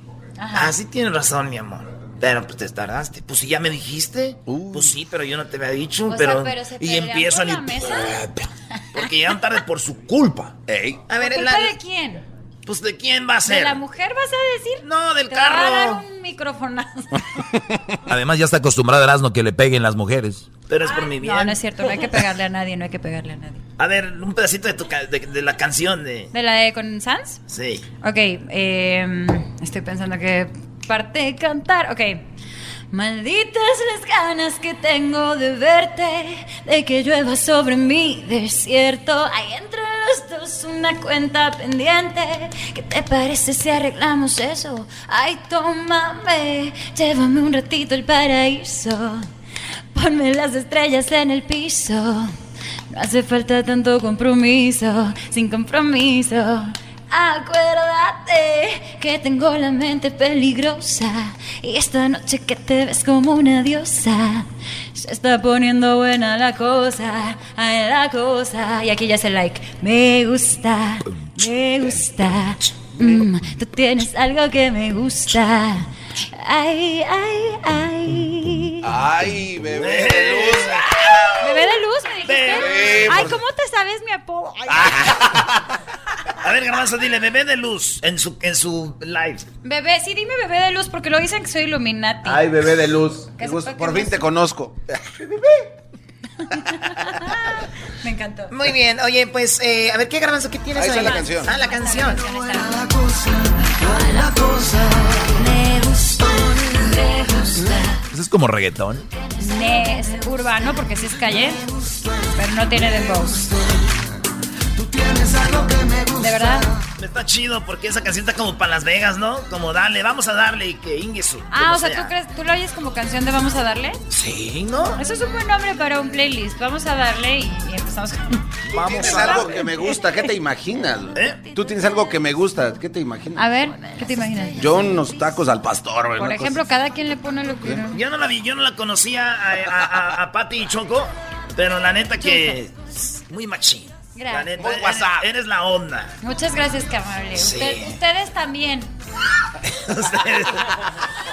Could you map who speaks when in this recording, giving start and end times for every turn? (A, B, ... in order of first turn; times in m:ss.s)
0:00.4-0:00.7 A
0:00.5-0:10.5 B
0:04.5-0:05.0 C
0:06.1-0:08.2 A
0:10.7-0:11.0 C
0:11.1-0:11.7 D
0:11.2-0:12.2 A
0:12.6-0:13.8 B
0:13.4-0:17.2 A
0:14.8-0:16.0 B
0:18.1-0:20.5 E
0:20.7-0:21.6 B
0:20.8-0:23.6 A
0:23.8-0:26.3 B
0:26.3-0:27.4 A
0:27.5-0:27.8 B
0:28.0-0:32.2 A
0:32.9-0:49.3 A
0:49.9-0:52.3 A
0:52.9-1:18.9 A
1:18.8-1:20.9 C
1:19.7-1:21.3 B
1:21.4-1:24.6 A
1:22.2-1:23.3 B
1:22.5-1:23.4 C
1:24.7-1:25.4 C
1:26.4-1:29.4 B
1:29.6-1:32.5 A
1:32.2-1:35.0 C
1:33.4-1:34.3 A
1:36.5-1:38.5 A
1:38.5-1:42.2 D
1:40.7-1:41.5 C
1:41.1-1:42.8 A
1:43.8-1:47.8 A
1:48.0-1:49.0 E
1:49.4-1:51.6 A
1:52.2-1:53.5 A
1:56.1-1:56.7 A
1:57.0-2:02.1 B
2:01.5-2:04.0 A
2:04.1-2:05.0 B
2:05.0-2:10.0 A
2:08.7-2:09.7 B
2:08.7-2:13.5 C
2:11.1-2:11.4 B
2:11.8-2:12.1 A
2:13.4-2:15.0 A
2:14.5-2:16.6 C
2:16.2-2:18.0 A
2:17.9-2:26.1 B
2:22.2-2:22.6 A
2:24.1-2:24.5 A
2:24.6-2:25.2 C
2:26.2-2:28.9 A
2:27.4-2:28.0 B
2:29.6-2:30.7 B